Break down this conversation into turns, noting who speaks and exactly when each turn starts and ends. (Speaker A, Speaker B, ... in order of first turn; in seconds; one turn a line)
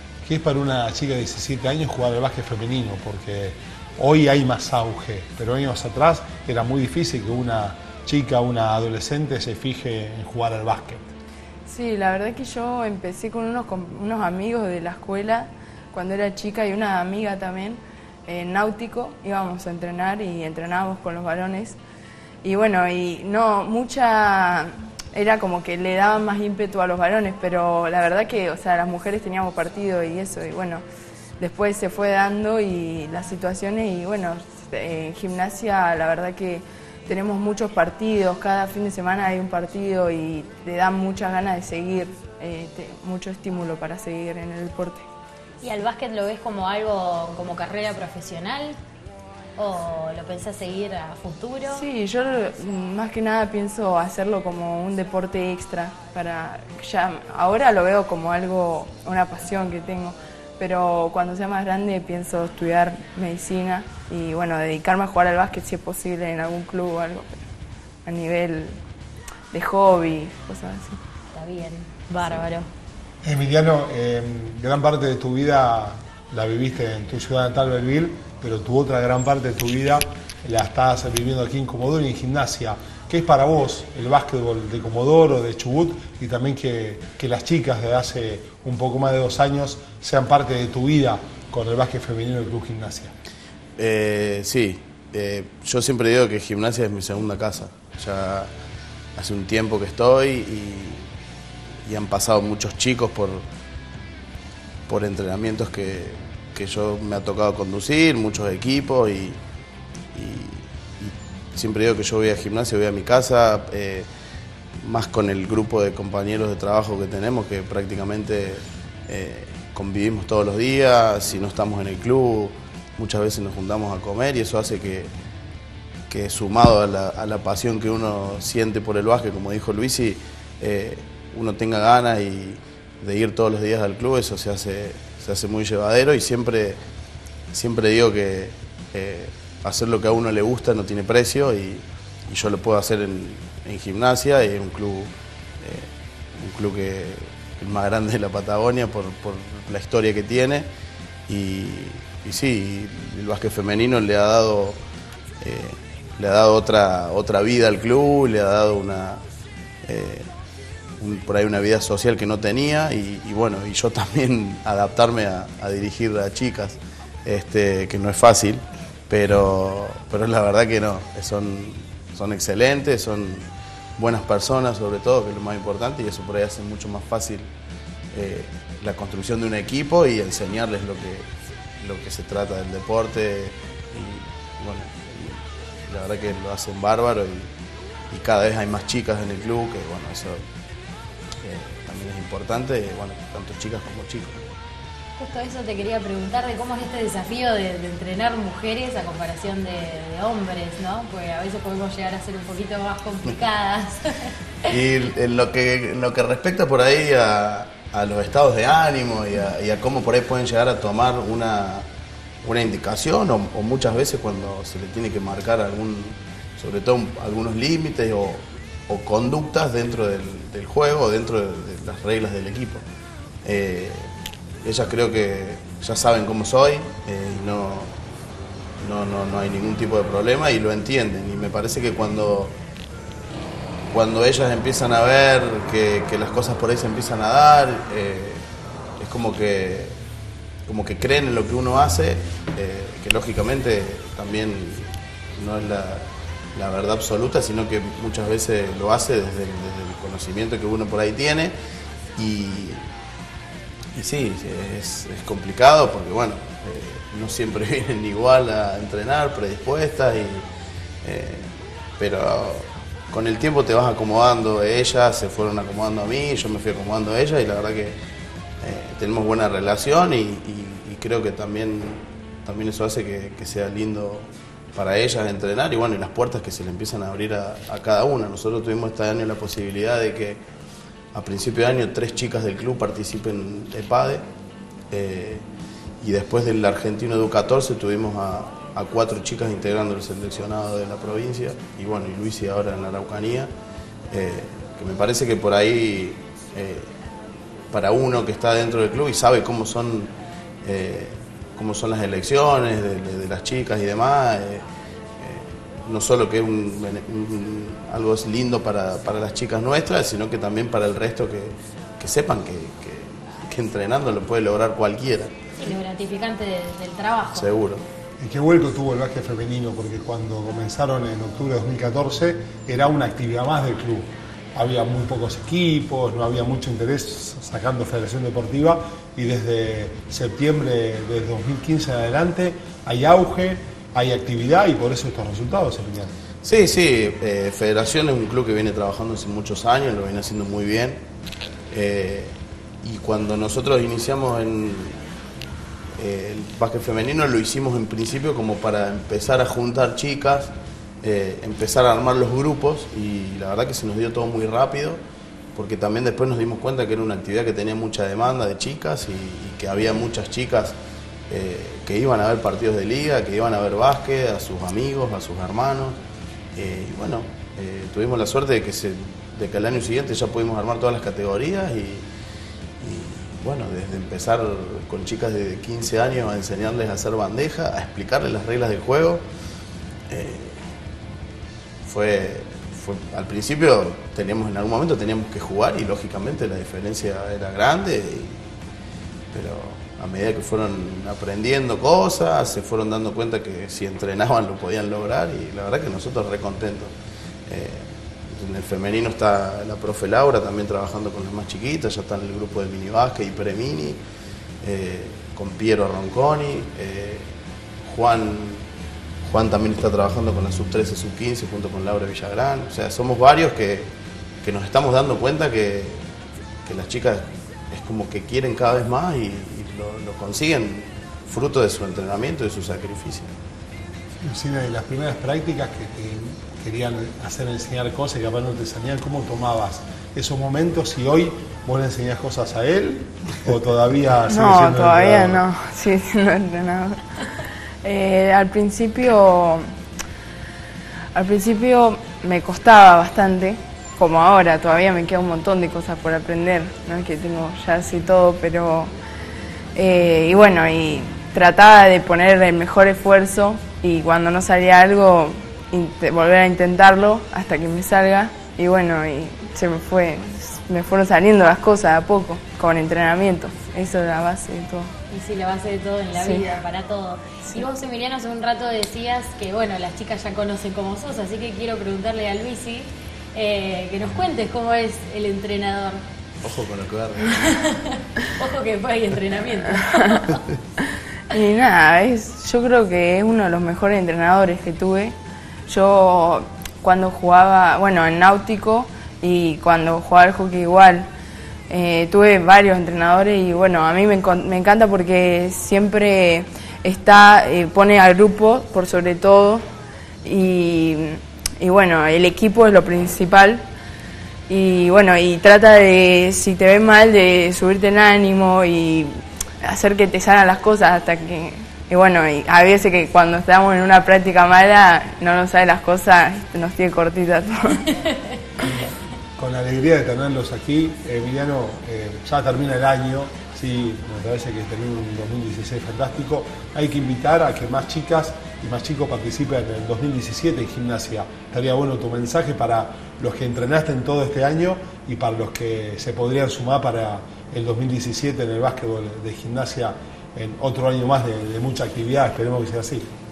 Speaker A: 0.2-11.1
Speaker B: 11.7-21.8
Speaker B: 22.4-30.8
Speaker B: 31.4-45.1
Speaker C: 45.6-48.8
Speaker C: 49.6-51.8
Speaker B: 51.7-67.4
Speaker B: 68.0-68.8
Speaker B: 69.5-71.0
Speaker C: 71.3-72.7
Speaker A: 73.2-93.1
Speaker D: 93.8-98.5
Speaker D: 99.2-101.0
Speaker D: 101.8-103.5
Speaker D: 104.9-109.4
Speaker D: 110.1-114.1
Speaker D: 114.8-125.1
Speaker D: 126.1-136.8
Speaker D: 137.5-150.7
Speaker D: 151.3-154.8
Speaker D: 155.4-159.2
Speaker D: 159.8-160.3
Speaker D: 161.0-177.5
Speaker D: 178.1-181.3
Speaker D: 181.8-187.5
Speaker D: 188.1-190.4
Speaker D: 191.4-194.5
Speaker C: 195.2-204.3
Speaker D: 204.7-211.9
Speaker D: 212.4-222.8
Speaker D: 223.4-224.1
Speaker D: 224.6-227.9
Speaker D: 228.8-232.6
Speaker D: 233.9-238.4
Speaker D: 239.0-240.0
Speaker D: 240.7-251.5
Speaker D: 252.2-252.8
Speaker D: 253.9-260.5
Speaker D: 261.0-268.0
Speaker D: 268.6-280.4
Speaker D: 281.1-284.2
Speaker D: 284.9-285.5
Speaker D: 286.0-293.5
Speaker D: 294.1-296.9
Speaker D: 297.7-304.6
Speaker D: 305.2-315.4
Speaker C: 315.6-317.5
Speaker D: 317.3-317.9
Speaker A: 318.2-336.1
Speaker D: 336.4-341.0
Speaker D: 341.7-345.1
Speaker D: 346.0-355.0
Speaker D: 355.6-360.8
Speaker D: 361.3-366.0
Speaker D: 366.6-372.1
Speaker D: 372.8-379.2
Speaker D: 380.1-380.6
Speaker D: 381.8-388.4
Speaker D: 389.3-396.9
Speaker D: 397.5-404.0
Speaker D: 404.6-407.3
Speaker D: 407.8-408.7
Speaker D: 409.2-413.9
Speaker D: 414.4-416.1
Speaker D: 416.6-423.3
Speaker A: 424.2-435.4
Speaker B: 434.3-437.0
Speaker B: 437.8-439.7
Speaker B: 441.1-448.9
Speaker B: 449.8-464.9
Speaker C: 465.1-476.1
Speaker B: 466.1-466.5
Speaker D: 476.4-477.4
Speaker C: 477.2-480.4
Speaker B: 481.3-485.2
Speaker B: 485.7-491.1
Speaker B: 491.7-499.6
Speaker B: 500.2-503.6
Speaker B: 504.5-517.9
Speaker A: 518.6-543.1